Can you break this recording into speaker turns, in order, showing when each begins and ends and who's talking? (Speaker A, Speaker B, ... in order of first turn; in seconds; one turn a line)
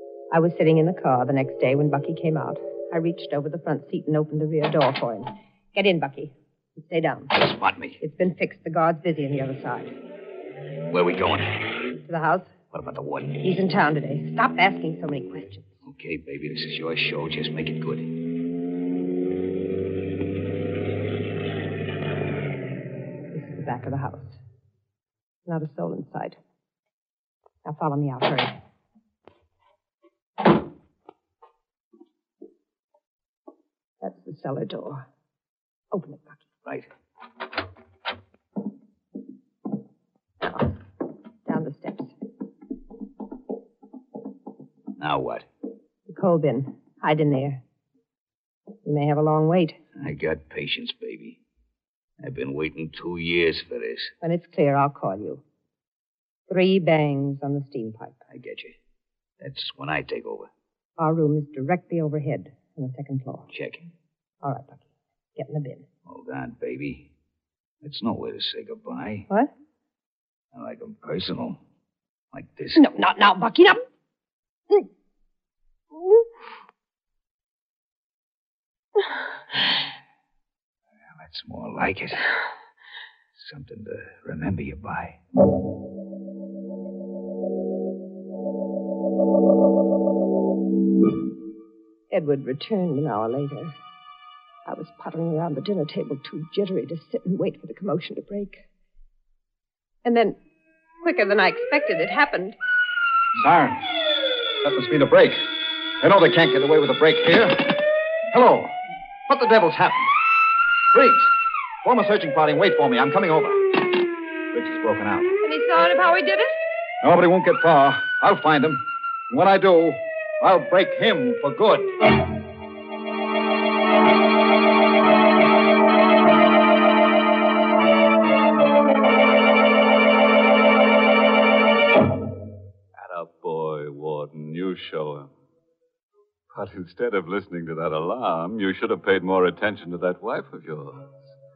Speaker A: 0.3-7.4
Speaker B: 7.3-8.0
Speaker A: 8.0-9.9
Speaker B: 10.9-11.5
Speaker A: 12.0-12.5
Speaker B: 12.7-13.4
Speaker A: 13.4-15.7
Speaker B: 15.8-18.1
Speaker A: 23.3-24.4
Speaker A: 25.5-26.4
Speaker A: 27.6-28.6
Speaker A: 34.0-35.0
Speaker A: 35.9-36.4
Speaker A: 40.4-40.8
Speaker A: 41.5-42.1
Speaker B: 45.0-45.5
Speaker A: 46.1-47.6
Speaker A: 48.9-49.8
Speaker B: 50.0-51.4
Speaker B: 52.2-54.1
Speaker A: 54.2-55.4
Speaker A: 56.5-58.2
Speaker B: 58.3-58.8
Speaker B: 59.4-60.5
Speaker A: 61.0-63.5
Speaker B: 63.5-63.9
Speaker A: 64.4-64.8
Speaker A: 65.4-65.9
Speaker B: 66.1-67.1
Speaker B: 67.8-69.3
Speaker B: 70.5-71.6
Speaker B: 72.3-72.9
Speaker A: 72.8-73.8
Speaker B: 81.1-82.3
Speaker B: 83.3-85.2
Speaker A: 92.1-93.8
Speaker A: 94.7-98.7
Speaker A: 100.0-100.4
Speaker A: 101.0-102.6
Speaker C: 103.3-103.9
Speaker C: 104.6-105.4
Speaker C: 106.0-107.8
Speaker C: 108.3-108.8
Speaker C: 109.3-110.1
Speaker C: 110.9-111.3
Speaker C: 111.8-114.0
Speaker C: 114.5-115.3
Speaker A: 115.4-116.5
Speaker C: 117.0-121.9
Speaker D: 133.0-135.3
Speaker D: 136.5-141.3